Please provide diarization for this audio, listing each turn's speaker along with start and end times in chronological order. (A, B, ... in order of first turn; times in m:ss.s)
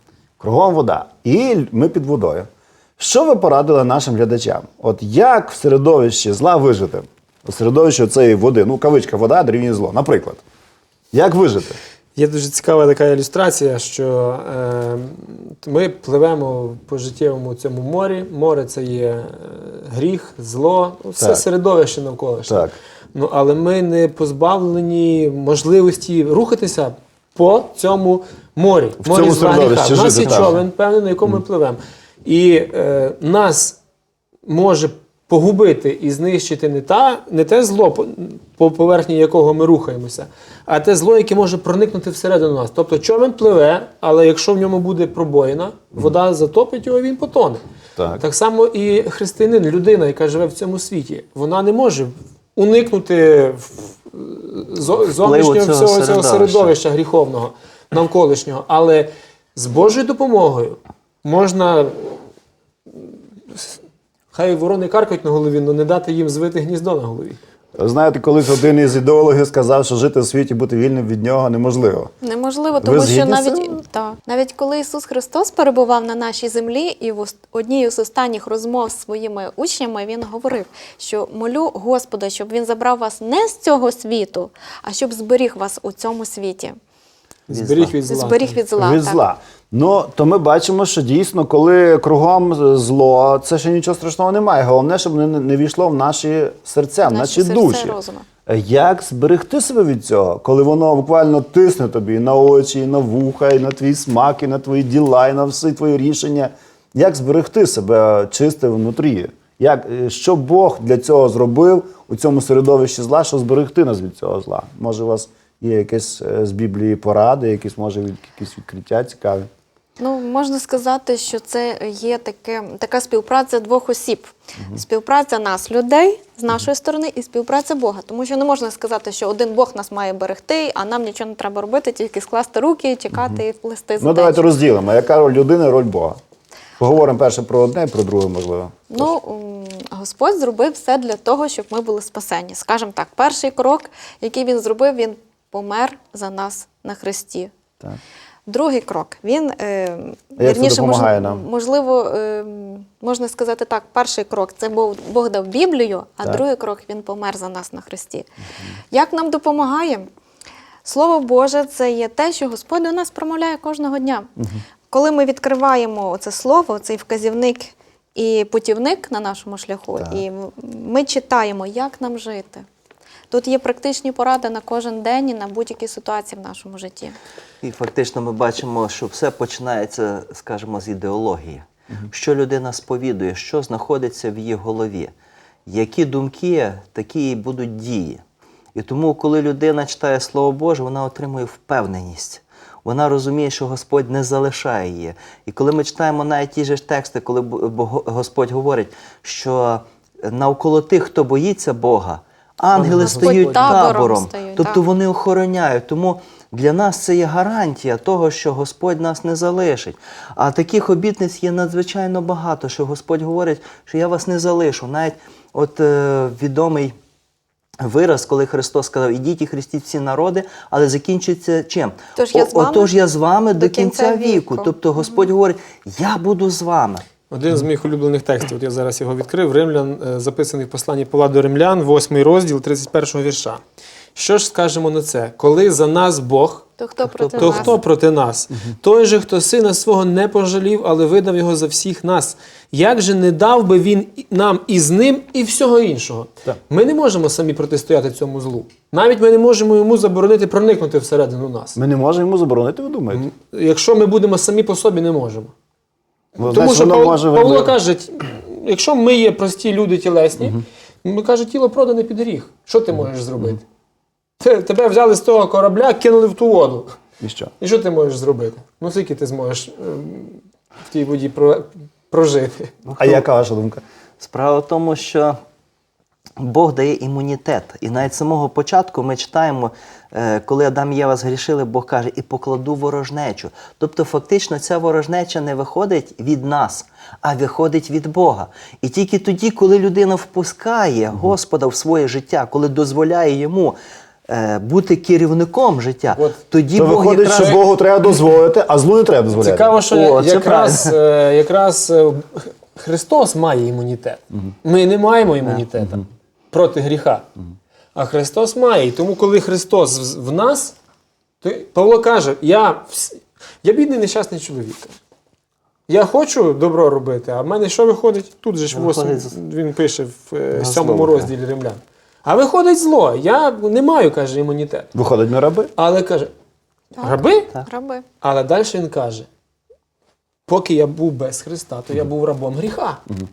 0:00.4-0:10.4 A
0:11.1-0:11.8 A
0:12.2-0:33.8 B
0:21.2-0:21.4 A
0:22.5-0:22.7 A
0:29.0-0:30.6 A
0:29.8-0:30.6 C
0:34.4-0:47.6 B
0:48.0-0:48.2 A
0:48.2-1:02.1 B
0:55.2-0:56.7 C
1:02.9-1:03.8 B
1:04.3-1:07.4 B
1:07.8-1:12.1 A
1:12.2-1:26.8 D
1:12.8-1:13.8 A
1:27.5-1:28.6 B
1:27.5-1:27.9 C
1:28.0-1:29.2 D
1:28.8-1:59.5 A
1:37.0-1:38.2 D
2:00.0-2:14.4 D
2:13.1-2:13.4 A
2:14.0-2:16.2 A
2:16.8-2:19.0 A
2:18.9-2:27.5 D
2:28.5-2:38.3 D
2:30.4-2:31.4 A
2:38.9-2:40.1 D
2:40.8-2:44.3 D
2:44.4-2:44.6 A
2:44.9-2:52.6 D
2:50.0-2:50.2 A
2:53.3-2:57.2 D
2:57.6-3:05.1 C
3:05.7-3:08.2 C
3:08.7-3:36.9 C
3:22.7-3:23.9 B
3:23.0-3:24.8 D
3:37.8-3:47.0 C
3:42.2-3:42.9 D
3:43.5-3:45.3 D
3:47.3-3:53.6 B
3:54.2-3:56.7 B
3:56.8-3:57.8 D
3:57.1-3:57.8 C
3:57.4-4:11.8 B
4:11.8-4:13.3 A
4:13.1-4:15.5 B
4:16.4-4:23.6 B
4:16.4-4:17.8 A
4:24.4-4:27.0 B
4:27.2-4:27.5 A
4:27.6-4:32.8 B
4:32.8-4:33.2 C
4:33.0-4:33.8 A
4:34.2-4:35.4 C
4:36.4-4:53.8 C
4:54.3-4:57.6 C
4:56.1-4:56.4 B
4:56.7-4:59.8 A
4:59.3-5:07.3 B
4:59.9-5:01.0 C
5:07.9-5:10.8 B
5:11.4-5:14.9 B
5:15.9-5:24.9 B
5:18.7-5:19.4 C
5:20.5-5:21.3 C
5:24.9-5:25.7 A
5:25.8-5:26.3 B
5:27.0-5:28.0 D
5:27.0-5:27.5 B
5:28.2-5:29.3 B
5:30.5-5:33.0 B